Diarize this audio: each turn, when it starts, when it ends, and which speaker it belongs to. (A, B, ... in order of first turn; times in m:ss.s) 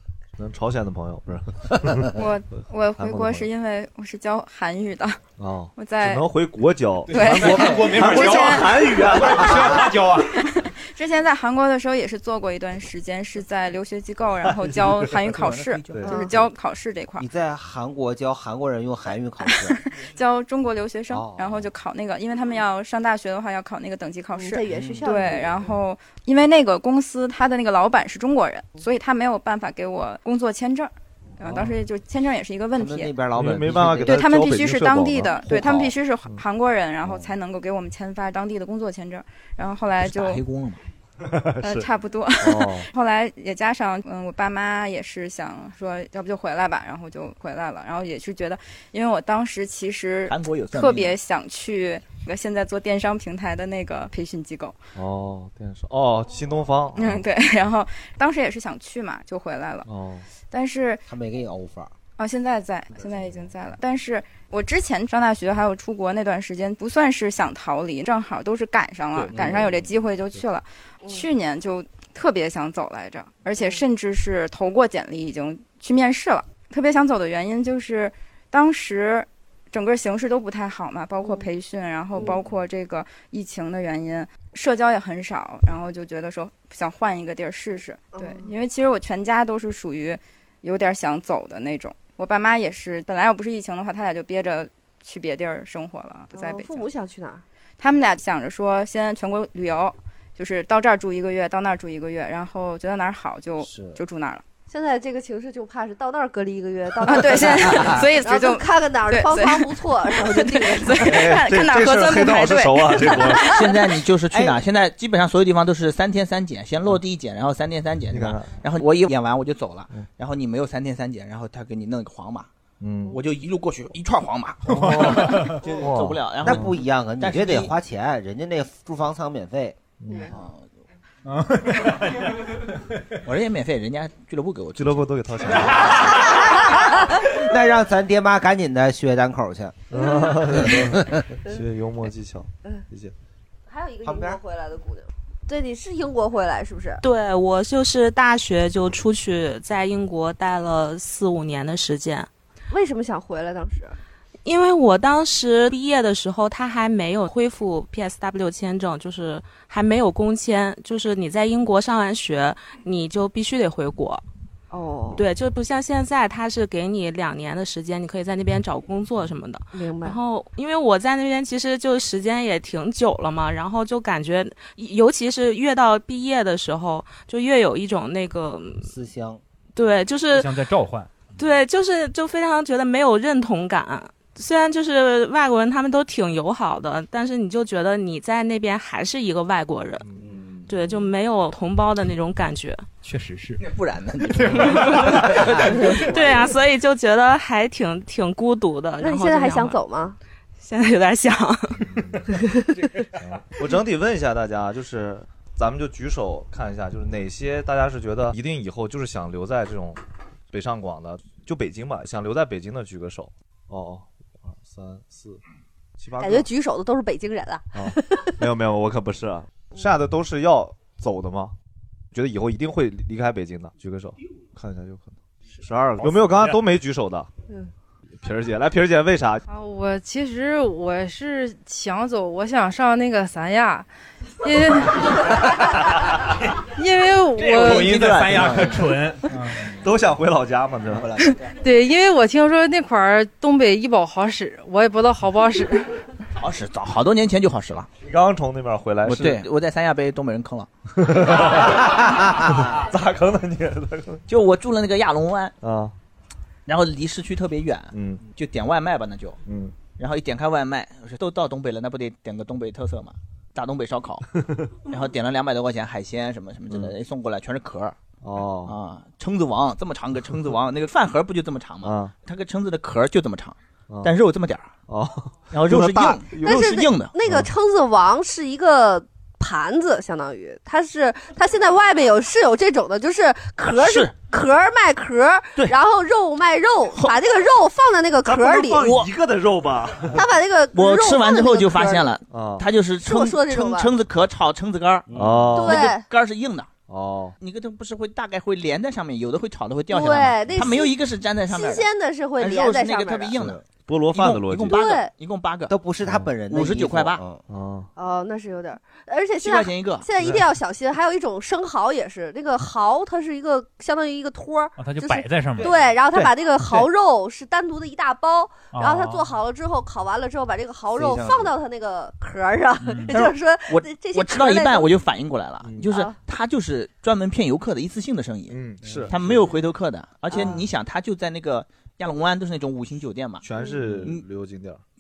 0:00.4-0:02.1 A
0:02.1-0:05.2 B
0:03.0-0:03.5 A
0:05.4-0:09.9 A
0:05.8-0:06.2 B
0:07.1-0:08.7 B
0:07.6-0:08.1 C
0:09.4-0:09.9 C
0:10.6-0:17.2 B
0:14.7-0:15.1 A
0:15.3-0:16.4 D
0:15.9-0:16.3 A
0:17.2-0:19.8 E
0:19.5-0:33.1 B
0:21.1-0:21.7 E
0:24.4-0:25.6 F
0:32.8-0:34.2 E
0:33.4-0:35.7 A
0:34.0-0:40.4 B
0:37.0-0:37.3 E
0:40.0-0:40.8 D
0:41.2-0:41.9 A
0:41.6-0:54.8 B
0:42.4-0:42.9 A
0:50.3-0:51.2 D
0:54.9-0:57.2 A
0:57.0-0:59.9 B
0:59.9-1:00.3 A
1:00.5-1:01.0 B
1:01.1-1:01.9 E
1:02.2-1:36.9 B
1:28.1-1:28.4 F
1:36.3-1:37.4 F
1:37.8-1:44.4 B
1:43.6-1:44.0 E
1:44.7-1:51.3 F
1:47.0-1:53.6 B
1:51.0-1:53.6 A
1:53.4-2:02.5 D
1:58.1-1:58.5 A
2:02.8-2:03.2 A
2:03.1-2:07.7 D
2:04.7-2:06.7 A
2:06.4-2:09.8 E
2:10.0-2:10.3 A
2:10.3-2:10.6 D
2:13.2-2:15.4 D
2:14.8-2:16.1 A
2:17.3-2:19.8 E
2:19.9-2:23.1 A
2:19.9-2:20.4 F
2:20.6-2:21.2 E
2:23.7-2:27.0 F
2:24.0-2:24.4 E
2:27.0-2:32.3 G
2:32.7-2:34.0 F
2:34.4-2:44.2 G
2:44.7-2:45.2 F
2:45.1-2:58.9 G
2:49.7-2:50.2 F
2:58.8-2:59.4 E
2:59.8-3:00.5 G
3:00.3-3:01.2 C
3:01.4-3:10.0 G
3:10.0-3:10.6 A
3:10.7-3:12.9 G
3:13.0-3:13.6 C
3:13.6-3:16.5 D
3:14.4-3:15.4 C
3:16.1-3:19.8 G
3:19.0-3:20.2 F
3:20.6-3:21.8 G
3:21.8-3:22.3 A
3:22.3-3:22.9 F
3:23.2-3:30.0 A
3:30.5-3:35.4 A
3:36.0-3:36.5 A
3:36.2-3:38.3 F
3:37.7-3:41.5 A
3:42.1-3:47.3 A
3:48.2-3:49.4 A
3:49.5-3:53.9 H
3:54.4-3:55.6 H
3:56.8-3:58.0 H
3:57.4-3:59.7 C
3:57.5-3:59.0 D
3:59.7-4:01.1 A
4:00.9-4:01.2 D
4:01.6-4:05.9 H
4:06.4-4:07.9 D
4:08.0-4:09.4 A
4:09.0-4:10.7 D
4:11.0-4:14.2 A
4:14.3-4:15.6 D
4:15.6-4:15.9 A
4:16.6-4:19.4 D
4:17.9-4:18.2 A
4:19.4-4:19.8 A
4:20.0-4:24.3 D
4:24.9-4:28.0 D
4:28.2-4:28.8 A
4:28.6-4:34.7 D
4:31.8-4:32.1 A
4:34.9-4:36.6 A
4:35.5-4:37.1 D
4:36.4-4:48.9 F
4:37.2-4:37.5 A
4:43.7-4:44.2 D
4:46.9-4:47.2 D
4:48.2-4:50.3 A
4:48.8-4:49.1 D
4:50.1-4:52.1 F
4:50.7-4:56.7 D
4:52.3-4:52.6 A
4:53.0-4:53.9 F
4:55.1-4:55.9 A
4:55.5-4:56.1 F
4:56.9-4:57.4 A
4:57.4-5:05.7 D
4:59.9-5:01.0 F
5:01.5-5:03.4 F
5:03.8-5:04.8 A
5:04.7-5:05.1 F
5:05.7-5:07.4 E
5:06.5-5:07.2 D
5:07.5-5:07.9 A
5:08.0-5:24.9 F
5:09.4-5:10.1 D
5:14.8-5:15.7 C
5:18.7-5:19.3 C
5:20.9-5:21.5 E
5:22.9-5:23.2 C
5:23.1-5:34.3 D
5:25.6-5:25.9 A
5:25.9-5:26.1 F
5:28.5-5:29.3 A
5:33.4-5:34.8 A